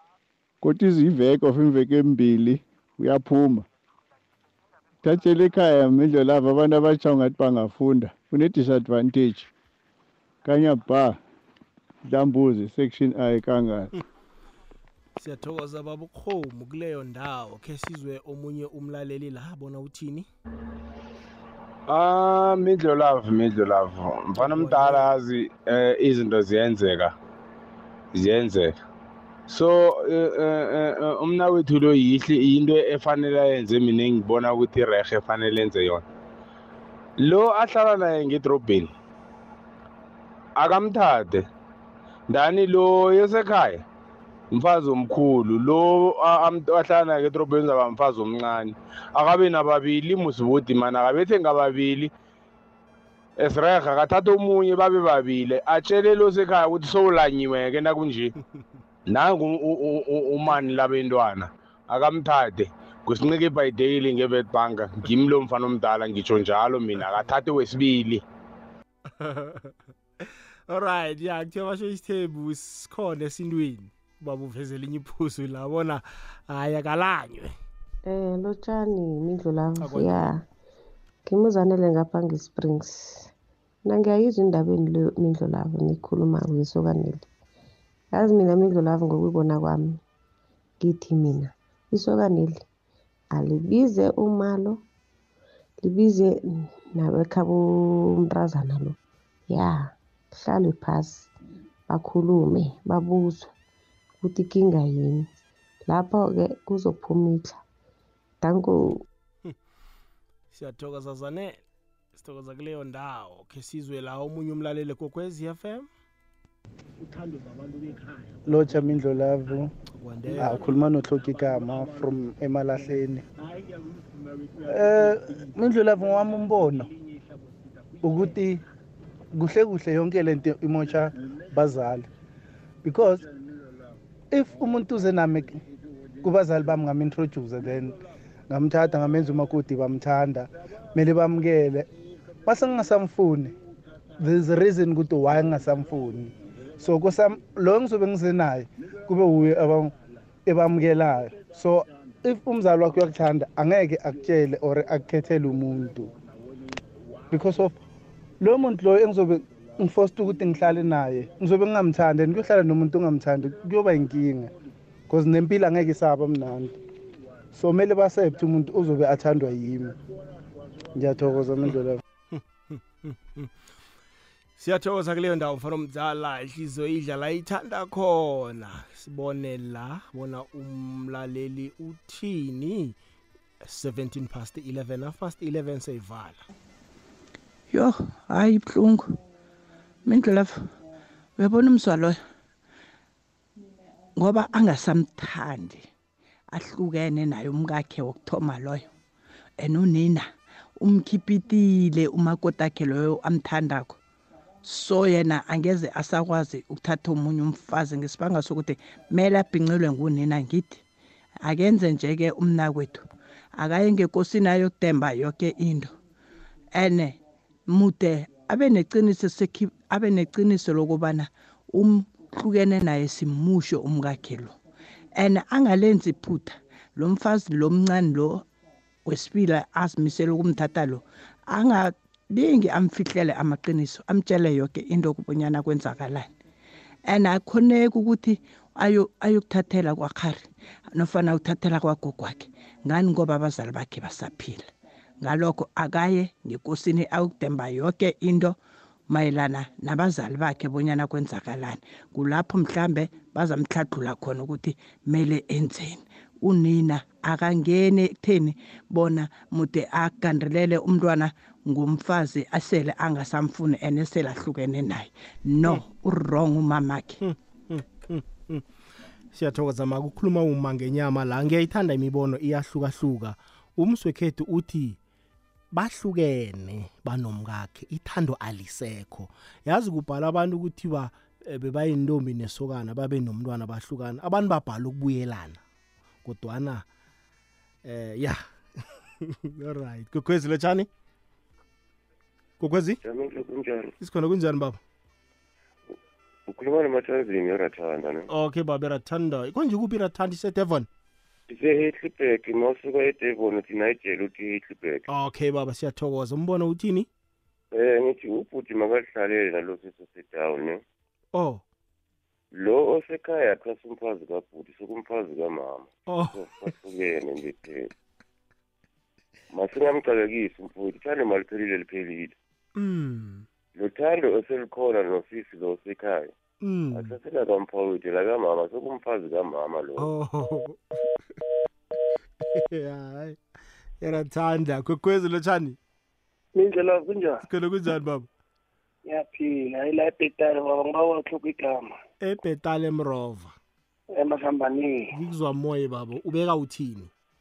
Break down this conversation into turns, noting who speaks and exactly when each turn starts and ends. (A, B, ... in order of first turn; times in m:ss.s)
0:00.6-0:03.7 A
0:05.0-0:09.5 A
0:10.4-0:11.2 A
0:12.0-0:13.9 A
0:15.2-0:20.3 B
0:21.9-0:27.1 C
0:24.4-0:25.1 B
0:28.2-0:28.7 C
0:29.5-0:36.0 C
0:37.2-0:38.9 C
0:40.6-0:41.4 C
0:42.3-0:43.8 C
0:44.5-0:52.1 C
0:53.4-0:58.3 C
0:59.1-1:08.2 C
1:09.2-1:17.6 B
1:18.1-1:20.4 D
1:19.8-1:20.3 B
1:21.3-1:23.3 D
1:23.9-1:27.3 D
1:28.1-1:30.0 D
1:30.8-1:32.6 D
1:33.3-1:34.8 D
1:35.8-1:39.0 D
1:39.5-1:41.3 D
1:41.9-1:43.5 D
1:44.2-1:45.3 D
1:45.9-1:47.6 D
1:48.4-1:49.0 D
1:50.5-1:51.6 B
1:52.2-1:55.9 B
1:58.5-1:59.7 E
2:00.0-2:00.7 B
2:00.4-2:03.2 E
2:04.7-2:06.9 E
2:08.0-2:08.6 E
2:09.4-2:12.1 E
2:12.8-2:13.2 E
2:14.3-2:15.6 E
2:16.2-2:18.0 E
2:18.5-2:21.8 E
2:22.5-2:23.5 E
2:24.2-2:29.9 E
2:30.5-2:36.1 E
2:37.3-2:37.7 E
2:38.4-2:44.5 E
2:45.1-2:46.8 E
2:47.5-2:49.9 E
2:51.0-2:52.0 E
2:52.3-2:53.5 B
2:54.6-3:03.0 B
3:03.6-3:06.4 B
3:07.7-3:09.1 F
3:10.1-3:10.6 F
3:11.4-3:12.2 F
3:14.2-3:15.9 F
3:16.5-3:18.9 F
3:19.6-3:24.0 F
3:24.6-3:30.8 F
3:31.4-3:33.1 F
3:33.6-3:35.9 F
3:36.7-3:37.2 F
3:37.7-3:44.6 F
3:45.2-3:48.4 F
3:49.1-3:56.3 F
3:57.1-4:04.7 F
4:05.2-4:08.6 F
4:09.1-4:27.2 F
4:27.2-4:28.7 B
4:29.3-4:35.0 B
4:35.7-4:45.6 B
4:46.2-4:46.8 B
4:47.8-4:50.9 B
4:52.6-4:53.0 B
4:53.0-4:53.9 G
4:54.0-4:54.8 B
4:56.5-4:58.3 G
4:58.3-5:00.9 B
5:01.5-5:05.0 G
5:05.1-5:07.1 B
5:07.7-5:10.8 G
5:11.3-5:11.6 B
5:12.5-5:17.9 G
5:16.1-5:16.6 B
5:19.5-5:22.3 G
5:22.8-5:23.5 B
5:23.8-5:26.3 G
5:26.6-5:27.2 B
5:26.9-5:30.1 G
5:30.0-5:31.0 B
5:32.4-5:33.4 B
5:34.0-5:35.8 B
5:36.6-5:37.4 H
5:37.4-5:38.3 B
5:39.1-5:42.0 H
5:42.2-5:43.5 B
5:44.1-5:45.1 H
5:45.1-5:47.1 B